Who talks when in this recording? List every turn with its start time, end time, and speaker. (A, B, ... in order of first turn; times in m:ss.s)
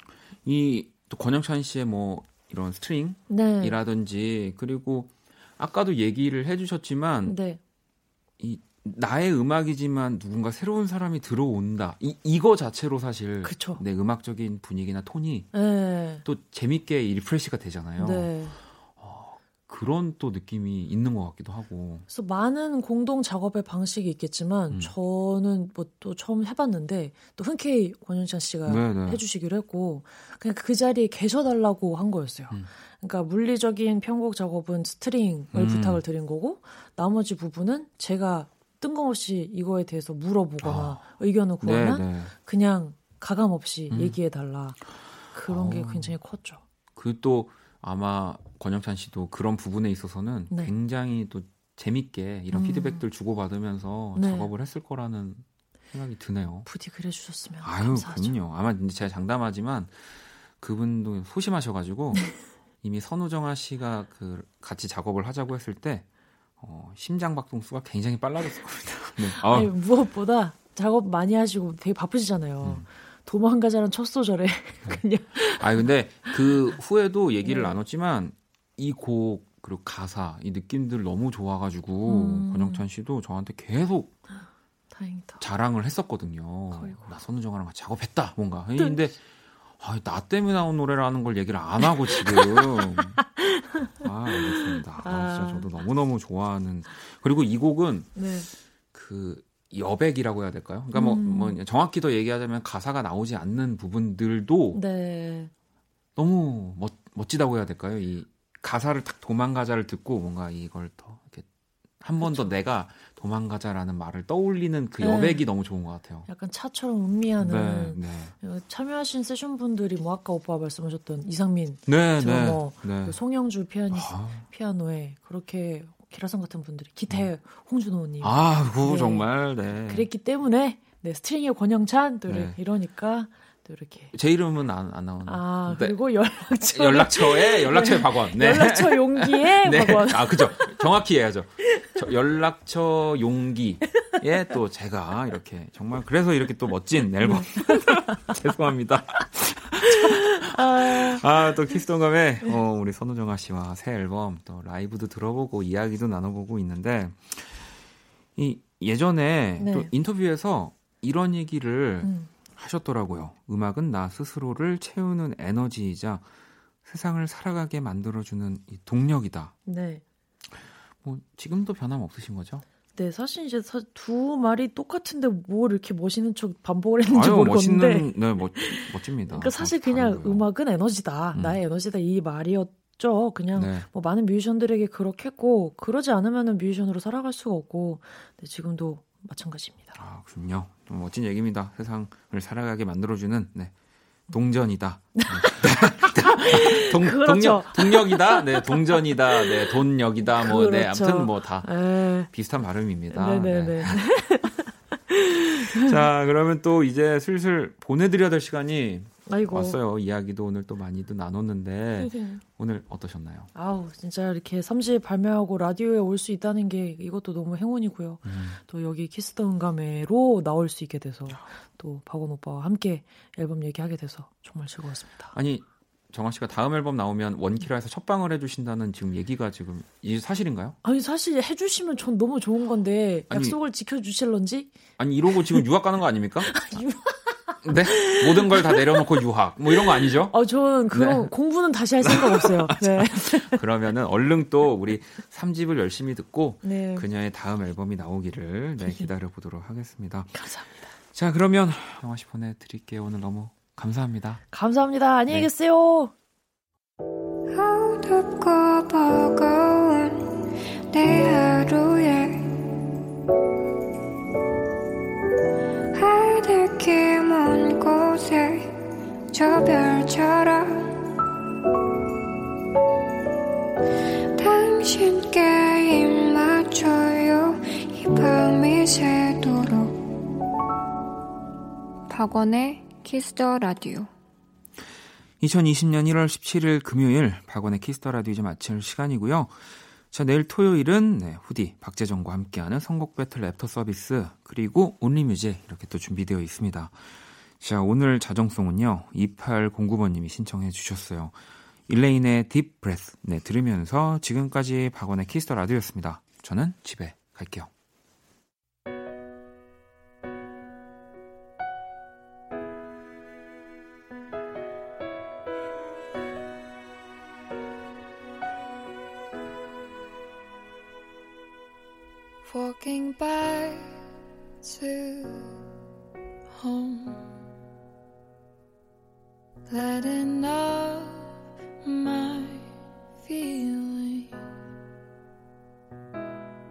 0:00.4-0:07.4 A
0:03.3-0:03.8 B
0:07.2-0:07.6 B
0:08.4-0:15.5 A
0:13.4-0:13.8 B
0:15.5-0:16.2 B
0:16.2-0:18.3 A
0:18.0-0:18.5 B
0:19.0-0:22.0 A
0:22.1-0:44.8 B
0:28.7-0:29.2 A
0:35.5-0:36.0 A
0:40.6-0:41.0 A
0:41.6-0:42.3 A
0:43.9-0:44.2 A
0:45.3-0:46.6 B
0:45.5-0:46.2 A
0:47.0-0:56.7 A
0:52.5-0:53.0 B
0:54.2-0:54.5 B
0:56.6-0:58.4 B
0:57.6-1:00.0 A
1:00.6-1:02.3 A
1:02.8-1:06.0 A
1:06.6-1:09.7 A
1:09.4-1:16.4 B
1:14.8-1:24.1 A
1:17.4-1:17.8 B
1:22.0-1:22.8 B
1:24.9-1:25.4 B
1:25.4-1:29.2 A
1:26.7-1:27.0 B
1:29.8-1:33.2 A
1:31.8-1:35.7 B
1:34.0-1:38.1 A
1:38.1-1:38.5 B
1:38.9-1:44.8 A
1:40.9-1:41.6 B
1:44.7-1:45.5 B
1:46.2-1:51.4 A
1:52.0-1:56.3 A
1:52.2-1:52.5 B
1:55.0-1:55.4 B
1:56.3-2:09.3 B
1:57.4-1:58.3 A
2:01.9-2:03.2 A
2:03.9-2:04.4 A
2:08.2-2:10.1 A
2:09.9-2:14.1 B
2:12.3-2:12.6 A
2:14.1-2:16.0 A
2:15.2-2:20.8 B
2:16.7-2:37.7 A
2:27.2-2:28.3 B
2:29.9-2:31.7 B
2:38.4-2:46.2 A
2:39.6-2:39.9 B
2:42.0-2:42.3 B
2:46.8-2:49.5 A
2:49.6-2:50.0 B
2:51.0-2:52.6 A
2:53.0-3:10.0 B
2:57.1-3:00.5 A
3:01.3-3:01.6 A
3:03.5-3:03.9 A
3:10.0-3:13.7 A
3:14.3-3:21.7 A
3:15.1-3:22.3 B
3:22.3-3:24.0 A
3:23.1-3:26.0 B
3:25.8-3:33.5 A
3:29.3-3:29.8 B
3:32.0-3:32.4 B
3:33.5-3:45.3 B
3:38.2-3:38.6 A
3:45.3-3:50.8 A
3:50.8-3:54.7 B
3:53.3-3:53.6 A
3:55.0-3:56.6 A
3:56.5-3:59.0 B
3:57.6-4:00.3 A
3:59.7-4:03.6 B
4:00.9-4:01.3 A
4:02.0-4:10.5 A
4:06.6-4:07.0 B
4:08.8-4:09.1 B
4:10.3-4:10.9 B
4:11.1-4:14.4 A
4:14.5-4:16.1 B
4:17.5-4:20.3 C
4:20.9-4:22.5 C
4:25.9-4:28.7 C
4:29.3-4:30.9 C
4:34.4-4:40.0 C
4:42.1-4:44.1 C
4:45.4-4:57.0 A
4:57.6-5:01.4 A
5:01.9-5:07.7 A
5:22.4-5:24.0 C
5:24.6-5:25.6 C
5:26.5-5:27.3 C
5:29.7-5:31.3 C
5:31.8-5:32.6 C
5:33.2-5:34.3 C